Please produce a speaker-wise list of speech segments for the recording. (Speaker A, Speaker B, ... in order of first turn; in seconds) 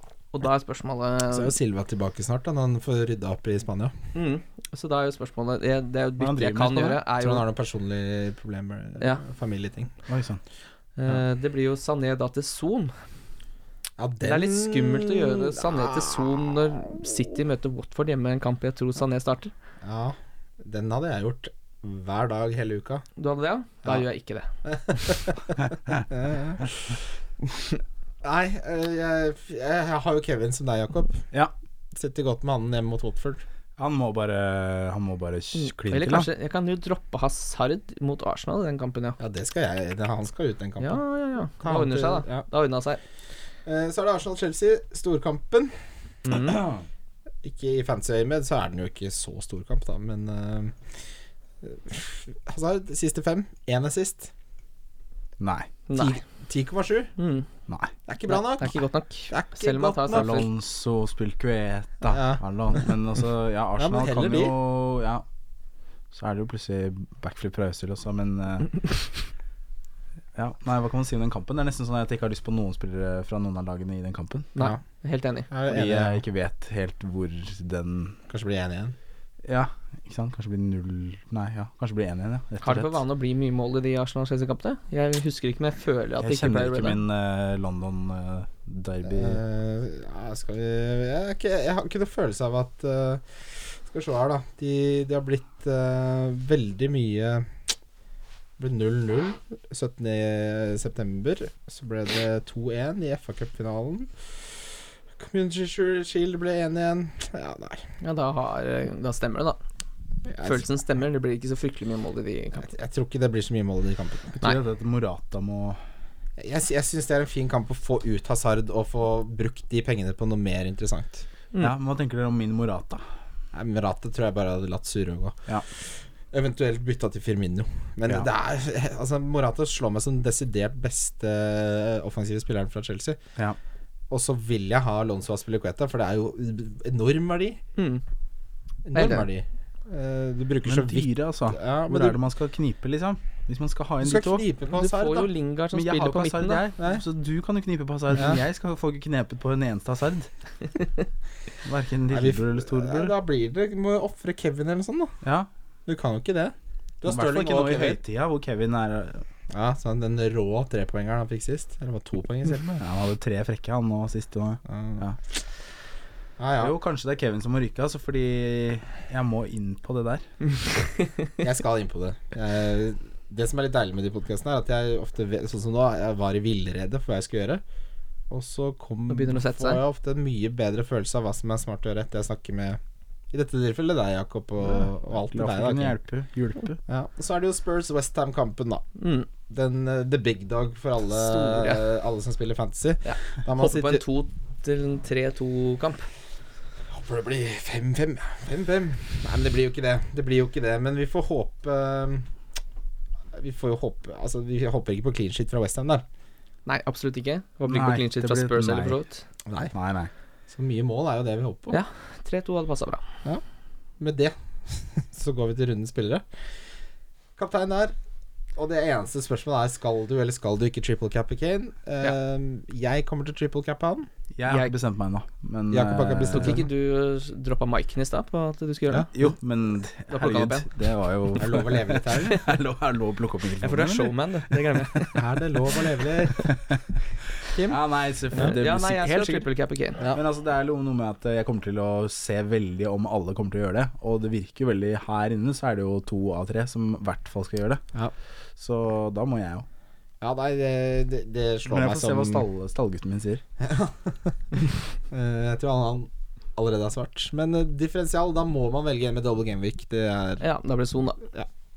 Speaker A: 0.3-1.5, 4.2-7.5, 11.0-12.9, 14.2-19.5, 23.2-25.2, 35.5-39.2, 40.8-43.0, 46.2-46.7, 55.9-56.2, 57.2-57.5, 58.3-60.5, 74.5-75.5, 82.6-87.0, 108.0-109.6, 110.4-112.7, 137.8-138.0, 138.9-139.3, 144.7-146.7, 179.1-179.8, 189.0-189.3, 191.1-191.8, 193.1-196.1, 206.7-209.2, 211.7-213.0, 224.5-224.7, 226.3-229.1, 230.1-230.7, 233.6-235.2, 238.3-240.0, 260.4-261.2
Speaker B: 1.3-4.0, 7.2-9.9, 14.0-17.1, 19.8-23.1, 24.6-25.6, 26.1-27.0, 28.2-31.3, 31.9-33.4, 39.2-42.5, 43.7-45.7, 47.4-50.8, 51.6-54.3, 55.9-57.1, 58.1-60.4, 62.1-62.4, 63.8-64.6, 75.5-76.2, 78.3-79.0, 89.1-97.5, 98.6-104.1, 105.2-107.8, 110.3-110.8, 112.6-114.4, 116.4-121.3, 123.5-125.4, 126.3-133.2, 134.1-137.6, 138.9-142.2, 144.0-145.3, 152.1-155.2, 155.9-158.0, 159.5-162.8, 164.7-165.1, 166.4-166.8, 171.4-177.6, 178.3-182.8, 183.3-186.0, 186.9-188.8, 189.5-194.0, 196.9-202.3, 203.3-206.1, 209.5-209.7, 210.5-211.8, 214.0-216.2, 217.4-217.9, 218.6-224.1, 225.7-226.7, 231.4-232.4, 235.1-236.6, 237.5-237.8, 250.2-252.4, 253.6-260.4
Speaker C: 6.2-7.0, 10.1-10.4, 33.8-36.3, 55.4-55.7, 60.1-65.2, 66.1-68.8, 70.4-74.5, 75.7-78.2, 79.5-83.0, 86.2-89.4, 114.3-115.8, 121.6-123.0, 140.7-144.4, 145.7-150.3, 151.6-153.2, 155.2-155.5, 157.1-159.2, 162.8-165.2, 166.6-170.2, 184.7-186.8, 207.6-209.0, 209.7-210.1, 224.4-226.6, 229.1-235.1, 237.7-239.5, 240.1-247.8, 248.6-249.7, 251.7-253.4